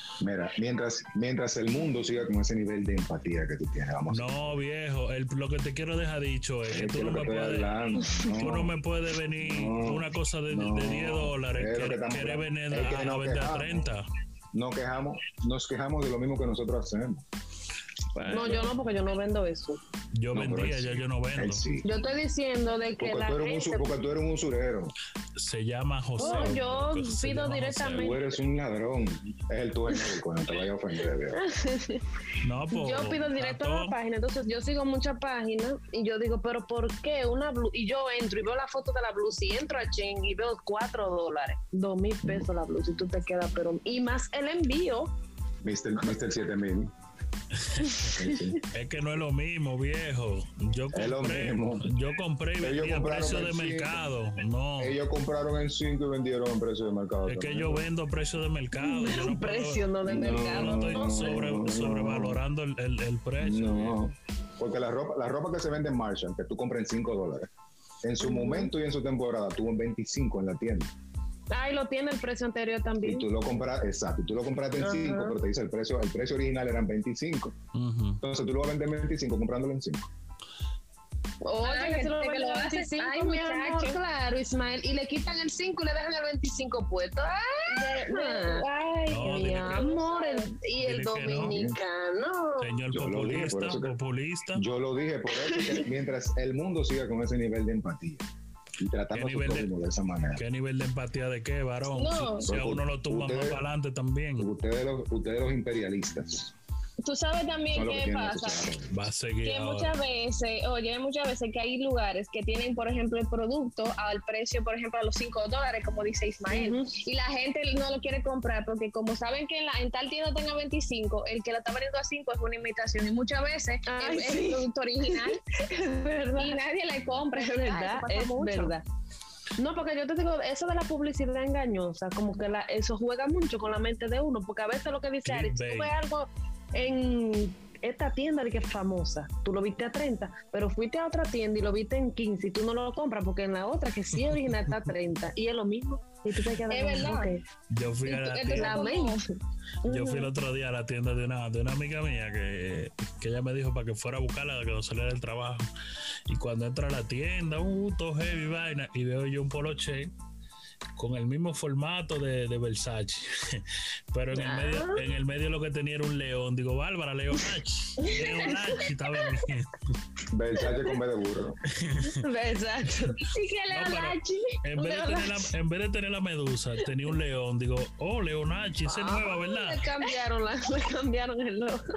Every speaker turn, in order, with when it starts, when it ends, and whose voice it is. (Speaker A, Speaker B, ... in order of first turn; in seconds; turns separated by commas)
Speaker A: 0.2-4.6, Speaker B: 4.1-14.0, Speaker A: 6.7-8.8, Speaker A: 9.4-13.9, Speaker A: 14.5-17.2, Speaker B: 18.1-18.7, Speaker C: 18.2-19.8, Speaker B: 20.1-21.6, Speaker A: 20.3-21.9, Speaker C: 21.8-23.9, Speaker A: 23.0-24.9, Speaker B: 25.4-28.1, Speaker C: 26.2-28.4, Speaker A: 27.9-31.4, Speaker C: 31.3-32.0, Speaker B: 32.4-34.0, Speaker C: 32.7-45.1, Speaker A: 45.6-46.9, Speaker B: 47.6-48.1, Speaker A: 48.1-48.6, Speaker B: 48.7-55.0, Speaker A: 50.9-51.9, Speaker A: 52.6-54.0, Speaker A: 54.8-57.9, Speaker B: 57.2-64.1, Speaker C: 58.7-61.6, Speaker A: 60.0-62.4, Speaker A: 63.4-67.5, Speaker A: 68.0-70.9, Speaker C: 68.2-68.7, Speaker C: 71.5-73.2, Speaker A: 73.0-77.5, Speaker C: 74.8-75.4, Speaker B: 77.7-78.2, Speaker A: 78.2-80.1, Speaker C: 81.4-92.8, Speaker D: 81.5-84.0, Speaker D: 87.7-90.5, Speaker B: 89.1-89.9, Speaker B: 90.8-91.6, Speaker A: 91.3-91.8, Speaker B: 92.6-94.6, Speaker A: 92.9-93.9, Speaker A: 94.5-98.3, Speaker A: 98.8-100.4, Speaker B: 99.1-99.7, Speaker B: 100.3-104.5, Speaker D: 101.9-102.5, Speaker A: 102.5-103.6, Speaker A: 104.4-106.5, Speaker D: 107.0-108.7, Speaker A: 107.7-109.1, Speaker B: 108.9-110.0, Speaker D: 109.4-125.4, Speaker C: 116.5-116.9, Speaker C: 123.8-126.6, Speaker D: 126.4-128.8, Speaker C: 127.3-128.8, Speaker C: 129.6-147.4, Speaker B: 135.2-135.9, Speaker D: 146.7-147.3, Speaker B: 147.7-148.8, Speaker D: 148.1-149.2, Speaker C: 148.5-149.2, Speaker C: 149.8-150.3, Speaker B: 149.8-155.7, Speaker B: 156.3-160.1, Speaker B: 160.9-169.8, Speaker C: 164.3-165.0, Speaker C: 168.0-169.2, Speaker A: 170.3-171.6, Speaker B: 171.7-172.2, Speaker C: 172.0-173.4, Speaker D: 173.2-174.6, Speaker B: 173.7-179.9, Speaker C: 174.8-175.2, Speaker C: 178.8-181.8